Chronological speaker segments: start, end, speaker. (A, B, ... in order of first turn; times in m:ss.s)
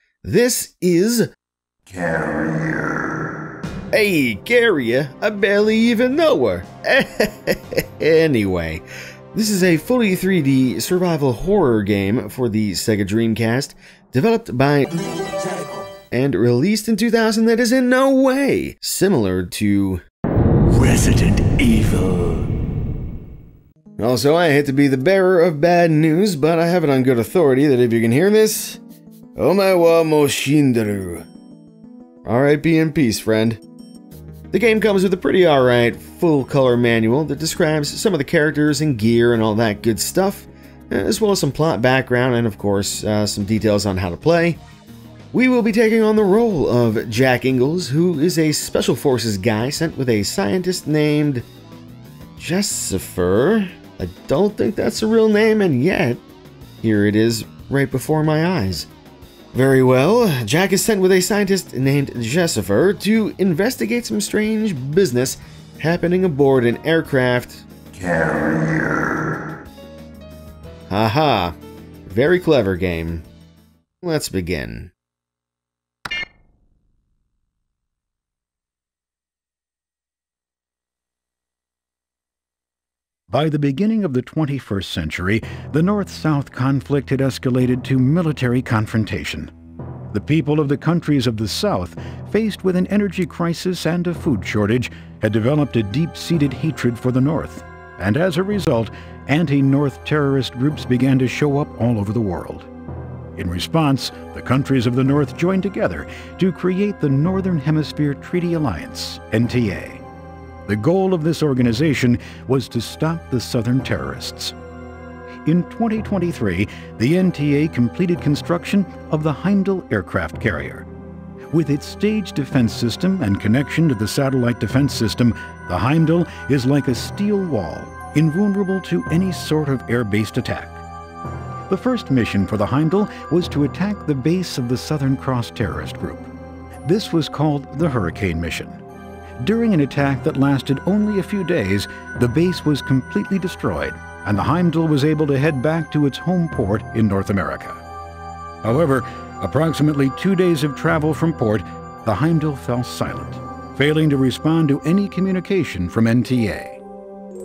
0:00.2-0:01.3 A
0:01.9-0:03.0 B
0:03.9-0:08.8 A
0:09.3-0:14.9 A
0:16.1-0:20.0 A
0:20.7-0:22.4 B
0:24.0-0:28.8 A
0:29.4-0:31.3 A
0:32.2-0:33.6 A
0:34.5-0:44.6 A
0:45.3-0:51.4 A
0:52.4-0:56.2 A
0:56.8-0:58.9 A
0:59.5-1:07.7 A
1:07.9-1:09.1 B
1:10.9-1:13.2 A
1:14.0-1:14.9 A
1:23.3-1:29.5 C
1:30.1-1:42.7 C
1:43.3-1:50.0 C
1:50.7-1:54.6 C
1:55.4-2:00.9 C
2:01.5-2:10.8 C
2:11.7-2:16.3 C
2:16.8-2:18.8 C
2:19.4-2:27.8 C
2:28.6-2:36.8 C